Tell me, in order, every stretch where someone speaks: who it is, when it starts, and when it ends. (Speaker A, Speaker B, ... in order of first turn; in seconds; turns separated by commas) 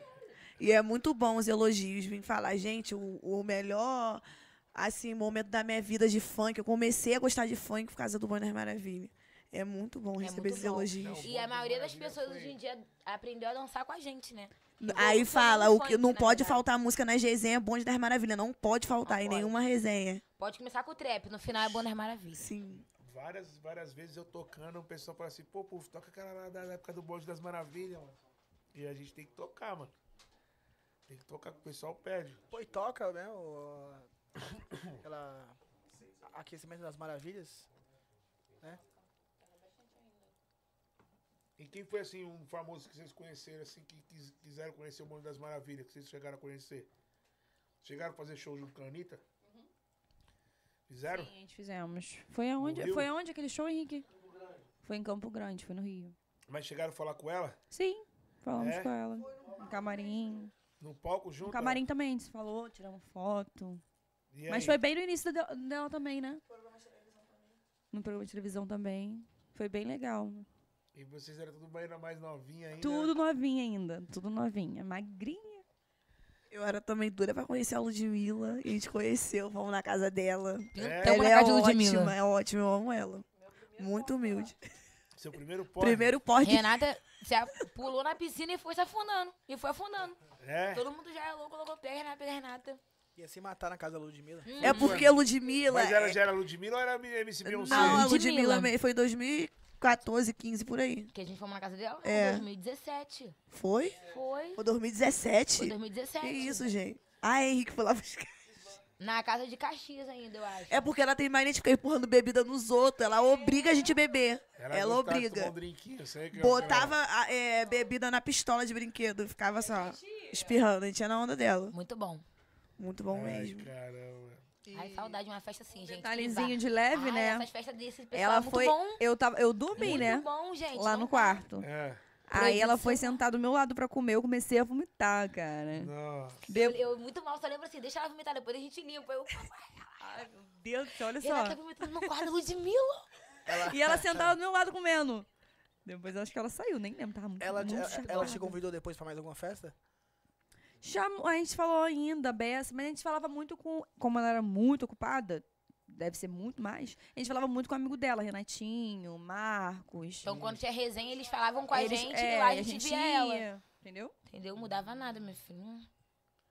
Speaker A: 0.6-11.3, Speaker B: 10.2-16.6, Speaker C: 11.0-12.6, Speaker A: 14.8-20.2, Speaker B: 19.1-19.6, Speaker B: 20.4-22.5, Speaker A: 22.4-22.9, Speaker C: 23.0-28.2, Speaker C: 28.7-29.9, Speaker C: 31.1-32.5, Speaker D: 32.5-34.1, Speaker C: 34.5-35.0, Speaker D: 35.0-35.6, Speaker D: 36.2-37.7, Speaker E: 39.4-40.3, Speaker C: 41.6-46.9, Speaker C: 47.8-49.2, Speaker C: 50.9-51.3, Speaker E: 51.0-54.1, Speaker C: 52.6-53.1, Speaker E: 54.8-56.1, Speaker C: 56.5-57.6, Speaker E: 57.7-60.5, Speaker C: 58.5-58.9, Speaker C: 60.8-61.8, Speaker E: 61.4-63.8, Speaker C: 64.3-64.8, Speaker E: 64.5-66.5, Speaker E: 67.9-70.5, Speaker C: 70.9-73.2, Speaker E: 72.8-75.6, Speaker A: 76.5-84.6, Speaker B: 80.7-82.2, Speaker C: 80.8-81.2, Speaker C: 85.2-86.2, Speaker A: 85.8-86.9, Speaker B: 86.4-92.8, Speaker C: 90.4-90.8, Speaker D: 93.2-94.6, Speaker B: 94.4-95.1, Speaker A: 94.6-96.2, Speaker C: 94.6-98.1, Speaker A: 97.4-101.1, Speaker B: 97.7-98.7, Speaker B: 101.1-103.4, Speaker A: 102.0-102.5, Speaker A: 103.5-104.0, Speaker B: 104.0-104.6, Speaker A: 104.6-108.5, Speaker B: 105.6-106.8, Speaker B: 109.0-110.9, Speaker A: 110.7-115.5, Speaker C: 114.6-117.0, Speaker A: 116.3-121.8, Speaker B: 121.7-122.2, Speaker A: 122.8-123.7, Speaker C: 123.1-124.5, Speaker D: 124.6-125.2, Speaker B: 124.7-129.0, Speaker E: 125.9-127.5, Speaker E: 128.1-131.7, Speaker B: 129.8-131.4, Speaker C: 131.6-132.1, Speaker E: 132.3-135.9, Speaker B: 132.3-133.2, Speaker C: 135.7-136.5, Speaker E: 136.5-136.8, Speaker B: 136.5-140.2, Speaker E: 140.0-142.1, Speaker B: 141.2-143.1, Speaker D: 143.5-144.3, Speaker E: 143.5-145.3, Speaker E: 145.8-148.6, Speaker D: 147.4-149.8, Speaker B: 147.7-148.5, Speaker E: 150.8-160.3, Speaker B: 160.2-163.5, Speaker C: 160.3-160.6, Speaker E: 161.7-164.1, Speaker B: 164.3-165.9